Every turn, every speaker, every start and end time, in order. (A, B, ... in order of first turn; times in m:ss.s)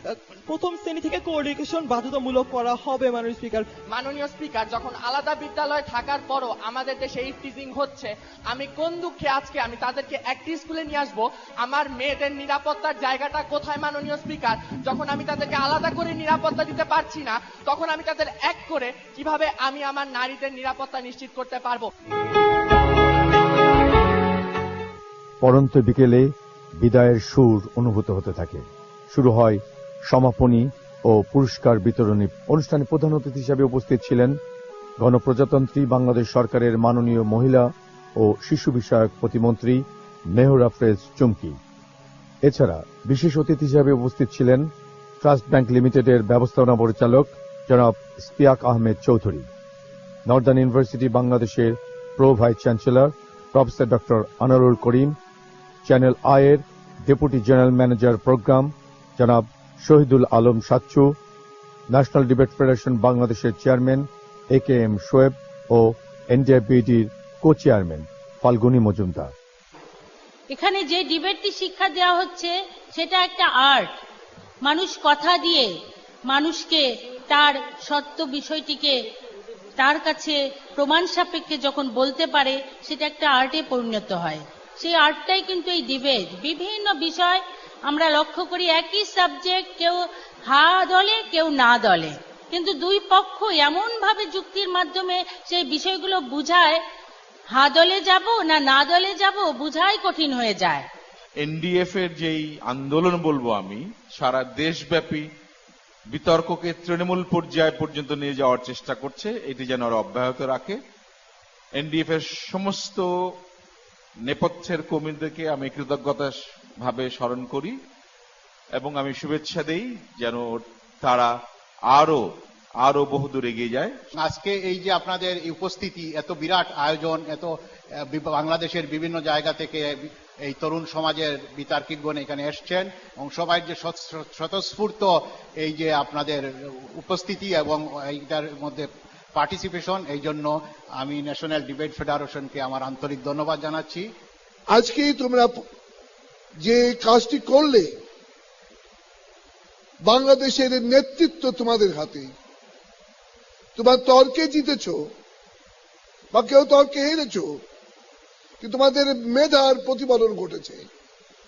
0:00.5-0:03.7 A
0:03.9-0:21.9 B
0:25.4-0:34.4 C
0:35.0-0:41.6 C
0:42.4-0:44.7 C
0:45.2-0:49.5 C
0:50.3-0:55.2 C
0:55.8-1:01.1 C
1:01.9-1:09.3 C
1:10.5-1:13.9 D
1:14.6-1:15.7 D
1:16.3-1:19.0 D
1:19.8-1:30.0 D
1:30.5-1:36.8 D
1:37.6-1:40.8 D
1:41.4-1:45.2 E
1:46.1-1:50.8 E
1:51.8-1:53.1 E
1:54.3-1:57.7 E
1:58.8-2:01.3 E
2:01.9-2:02.2 E
2:02.8-2:03.9 E
2:04.2-2:07.5 F
2:08.1-2:24.1 F
2:24.7-2:25.6 G
2:26.6-2:27.9 G
2:30.1-2:32.3 G
2:33.8-2:35.0 G
2:36.3-2:37.5 G
2:38.6-2:40.8 G